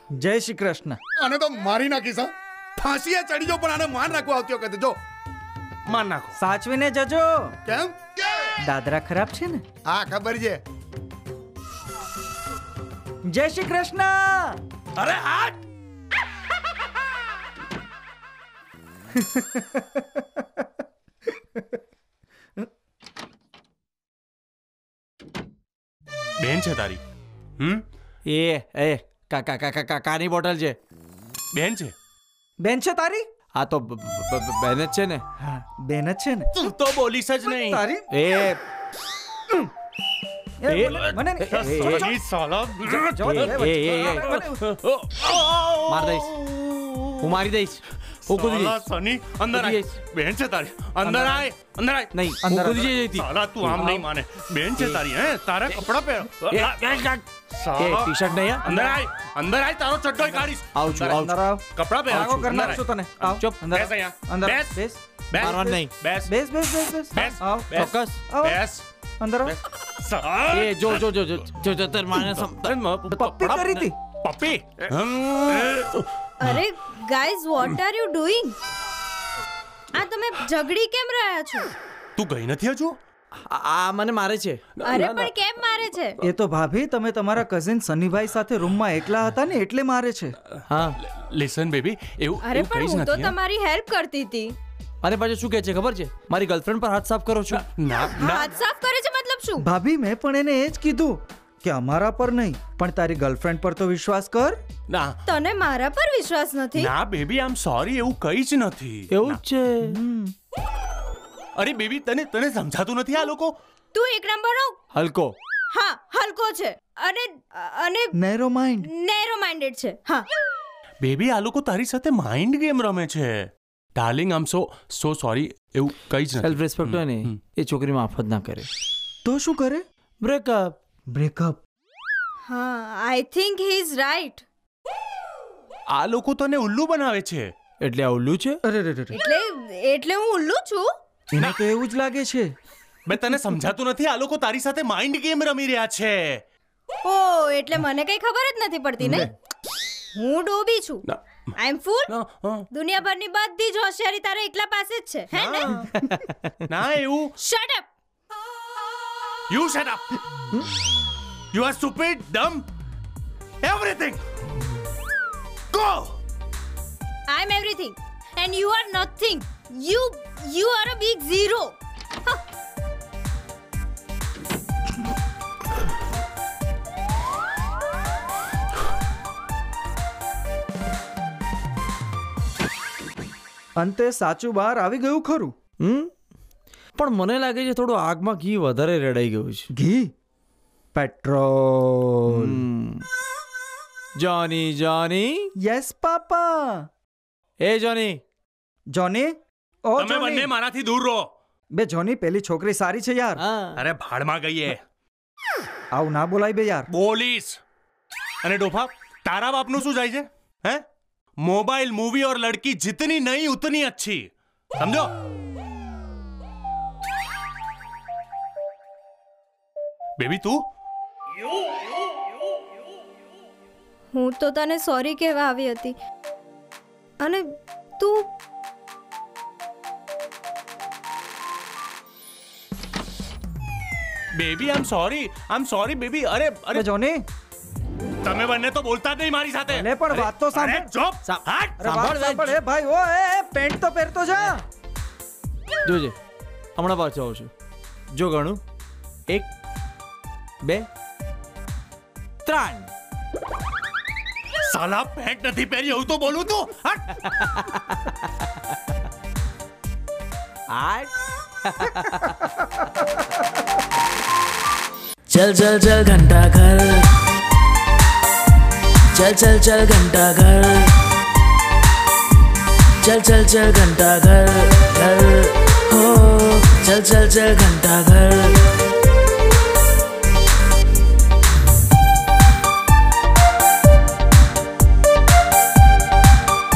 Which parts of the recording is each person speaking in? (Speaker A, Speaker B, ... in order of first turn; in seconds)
Speaker A: 0.2-1.0, 6.4-7.5, 8.6-9.6, 13.3-14.6, 19.2-20.2, 32.6-33.2, 35.4-36.5, 37.5-38.1, 40.6-42.0, 43.1-44.7, 51.1-51.4, 52.4-52.9, 61.1-68.6, 69.2-69.6, 73.1-74.0, 86.2-90.3, 99.6-104.6, 109.8-110.3, 118.2-118.9, 129.2-129.8, 131.1-131.6, 138.6-139.2, 141.3-142.5, 149.0-149.3, 183.8-185.6, 189.7-190.1, 190.9-192.6, 195.6-196.9, 198.9-200.5, 201.7-203.4, 205.9-206.9, 236.7-237.2, 239.7-240.9, 241.8-244.6
Speaker B: 1.2-5.0, 7.7-8.3, 9.9-10.6
Speaker C: 5.9-6.4, 15.0-15.6, 26.4-27.0, 31.5-31.9, 36.5-37.8, 40.8-47.4, 48.2-57.0, 57.5-64.8, 65.3-66.3, 67.1-68.8, 69.5-71.1, 72.1-76.5, 82.2-83.0, 84.8-85.4, 91.0-93.4, 97.5-98.6, 104.9-105.2, 106.8-109.4, 111.6-113.5, 121.0-127.4, 135.9-137.5, 143.1-146.4, 152.1-152.7, 155.3-155.7, 156.7-157.3, 159.5-160.0, 161.5-162.7, 163.6-164.2, 165.7-166.2, 200.0-201.3, 203.8-204.8, 206.9-207.6, 208.4-210.8, 211.4-215.1, 220.2-220.6, 234.3-236.8, 238.2-241.8, 254.6-257.1
Speaker D: 28.3-30.8, 33.5-35.2, 38.1-38.6, 40.7-42.1, 43.2-44.4, 45.9-46.3, 47.2-48.8, 49.5-50.0, 52.1-54.1, 56.4-57.2, 57.8-58.8, 60.8-61.4, 62.1-63.8, 65.4-65.9, 67.7-68.3, 70.5-72.8, 83.4-84.6, 90.7-91.0, 95.0-97.7, 109.1-110.0, 114.9-115.3, 126.4-128.7, 130.2-130.8, 137.8-138.6, 155.7-156.5, 185.8-186.1, 187.0-189.7, 192.3-193.1, 194.2-195.5, 197.6-198.2, 203.4-203.8, 241.2-242.6, 245.8-246.2, 246.8-247.5, 248.1-248.6, 250.6-250.9, 252.4-252.9, 257.1-258.7, 260.7-262.6
Speaker E: 76.4-78.6, 79.9-81.7, 84.8-86.2, 92.4-94.6, 98.2-99.7, 105.3-106.9, 113.9-114.8, 115.7-118.2, 118.8-120.2, 132.5-134.4, 139.1-140.9, 147.0-149.3, 150.2-151.1, 151.6-152.1, 152.7-155.9, 157.4-157.9, 167.3-171.8, 224.1-225.9, 227.2-227.5, 228.0-228.3
Speaker F: 265.3-267.2, 269.1-271.0, 273.0-278.9